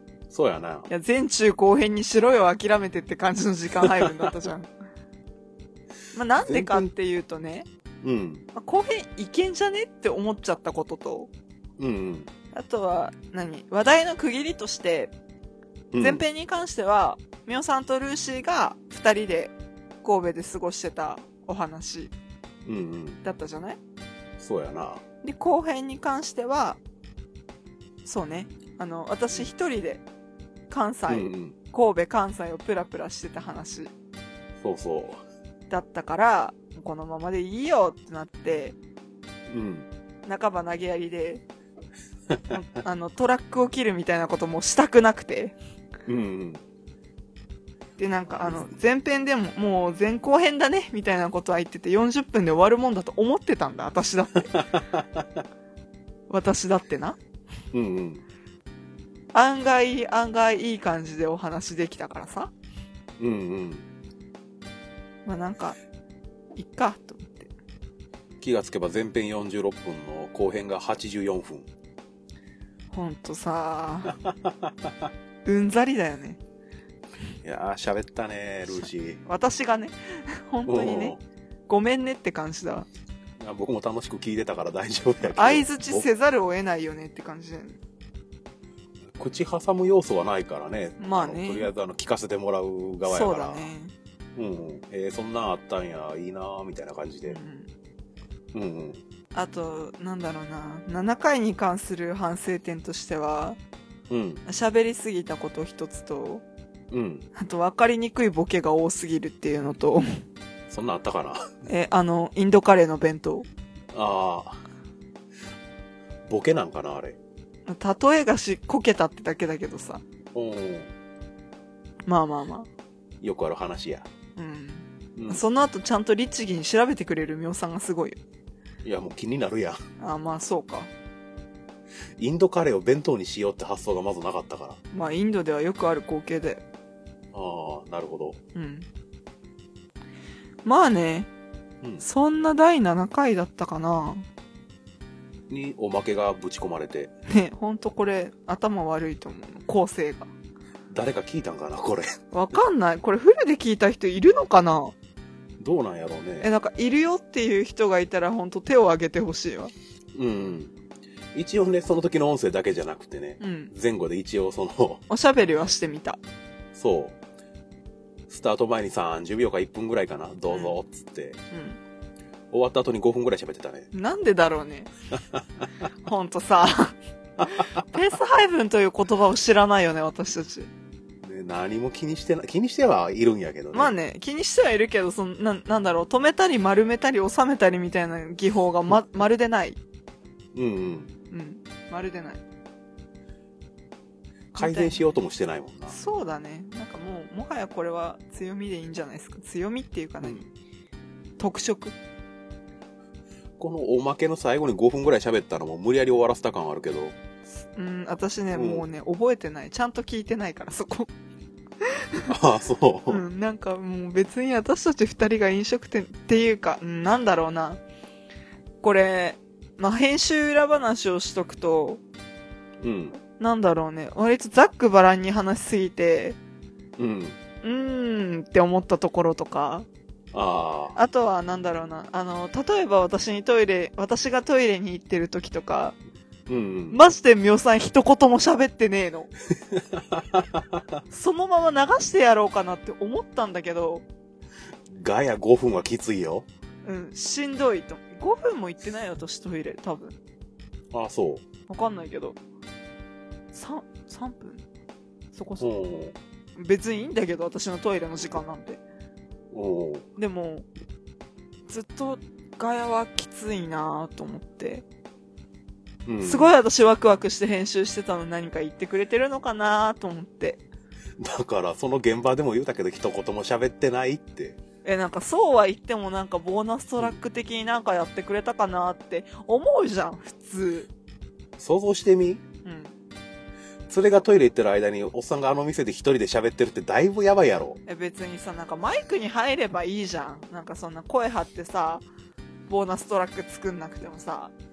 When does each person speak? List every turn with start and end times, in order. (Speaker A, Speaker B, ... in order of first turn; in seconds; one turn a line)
Speaker A: 0.3-0.9
Speaker B: 0.9-4.7
Speaker A: 3.8-4.1
Speaker B: 6.1-7.7
Speaker A: 6.4-6.9
Speaker A: 8.0-8.4
Speaker B: 8.5-11.3
Speaker A: 11.8-12.3
Speaker B: 12.5-15.1
Speaker A: 15.9-16.2
Speaker B: 16.0-22.1
Speaker A: 22.6-23.2
Speaker B: 23.2-23.8
Speaker A: 24.4-25.0
Speaker B: 25.2-26.8
Speaker B: 28.0-30.0
Speaker B: 30.7-33.9
Speaker A: 31.1-31.6
Speaker A: 34.6-35.2
Speaker B: 35.7-38.8
Speaker A: 39.5-39.9
Speaker B: 40.2-41.4
Speaker A: 42.3-42.6
Speaker B: 42.5-45.5
Speaker A: 46.1-46.6
Speaker B: 48.0-54.5
Speaker A: 48.4-48.7
Speaker A: 54.5-55.4
Speaker B: 56.3-57.2
Speaker A: 57.7-58.2
Speaker B: 59.3-62.5
Speaker A: 63.2-63.9
Speaker B: 65.2-65.8
Speaker B: 66.5-67.5
Speaker A: 68.4-71.7
Speaker B: 72.9-74.2
Speaker A: 74.1-75.1
Speaker B: 75.4-76.4
Speaker A: 77.4-79.2
Speaker B: 79.2-81.2
Speaker A: 80.7-81.2
Speaker B: 81.7-82.9
Speaker A: 83.4-86.0
Speaker B: 85.3-87.8
Speaker A: 89.1-93.7
Speaker B: 91.0-91.7
Speaker B: 93.0-93.9
Speaker A: 94.3-97.4
Speaker B: 97.2-97.7
Speaker A: 98.5-99.0
Speaker B: 99.3-103.6
Speaker A: 104.1-104.4
Speaker B: 104.5-106.4
Speaker A: 106.9-107.2
Speaker B: 107.3-110.2
Speaker A: 110.7-111.5
Speaker B: 111.7-113.5
Speaker A: 113.9-114.6
Speaker A: 116.3-117.2
Speaker B: 117.7-120.0
Speaker A: 120.3-120.9
Speaker B: 122.1-122.7
Speaker A: 123.2-124.0
Speaker B: 124.3-128.2
Speaker A: 125.2-125.4
Speaker A: 128.8-129.8
Speaker B: 130.0-130.9
Speaker A: 132.2-134.8
Speaker B: 134.9-136.6
Speaker A: 137.3-138.4
Speaker B: 138.5-138.9
Speaker B: 140.6-141.3
Speaker B: 142.0-144.2
Speaker A: 145.5-147.1
Speaker B: 147.3-150.3
Speaker A: 150.9-152.2
Speaker B: 152.3-154.9
Speaker A: 155.6-156.5
Speaker B: 156.4-159.7
Speaker A: 160.1-160.7
Speaker A: 161.3-165.0
Speaker B: 163.4-163.7
Speaker B: 165.1-166.2
Speaker A: 166.7-167.2
Speaker A: 168.3-171.4
Speaker B: 170.5-170.8
Speaker B: 171.5-171.8
Speaker A: 172.5-173.9
Speaker B: 173.9-174.9
Speaker B: 176.0-180.7
Speaker A: 181.2-183.9
Speaker B: 183.7-189.8
Speaker A: 190.5-191.1
Speaker B: 191.3-192.4
Speaker B: 194.5-195.0
Speaker A: 194.5-195.9
Speaker B: 195.9-200.4
Speaker B: 201.4-201.9
Speaker A: 203.6-207.1
Speaker B: 207.7-211.1
Speaker A: 208.5-208.8
Speaker B: 211.8-212.3
Speaker A: 212.3-213.2
Speaker B: 213.1-217.8
Speaker B: 218.8-222.0
Speaker A: 222.8-223.2
Speaker B: 223.4-226.4
Speaker A: 227.0-227.4
Speaker B: 227.6-229.9
Speaker A: 230.3-230.9
Speaker B: 230.9-235.9
Speaker A: 236.5-237.0
Speaker B: 236.9-239.3
Speaker A: 239.7-241.0
Speaker B: 241.1-244.0
Speaker A: 244.9-246.5
Speaker B: 246.8-250.2
Speaker A: 250.9-251.4
Speaker B: 251.7-252.4
Speaker B: 253.5-254.6
Speaker B: 255.3-255.7
Speaker A: 255.6-256.1
Speaker B: 256.6-258.8
Speaker A: 259.5-260.1
Speaker B: 260.2-260.7
Speaker B: 261.7-264.8
Speaker A: 266.1-266.5
Speaker B: 266.2-270.6
Speaker A: 271.2-274.6
Speaker B: 274.8-280.9
Speaker A: 281.6-282.4
Speaker B: 282.6-282.9
Speaker A: 283.9-287.8
Speaker B: 287.9-292.0
Speaker B: 292.7-294.5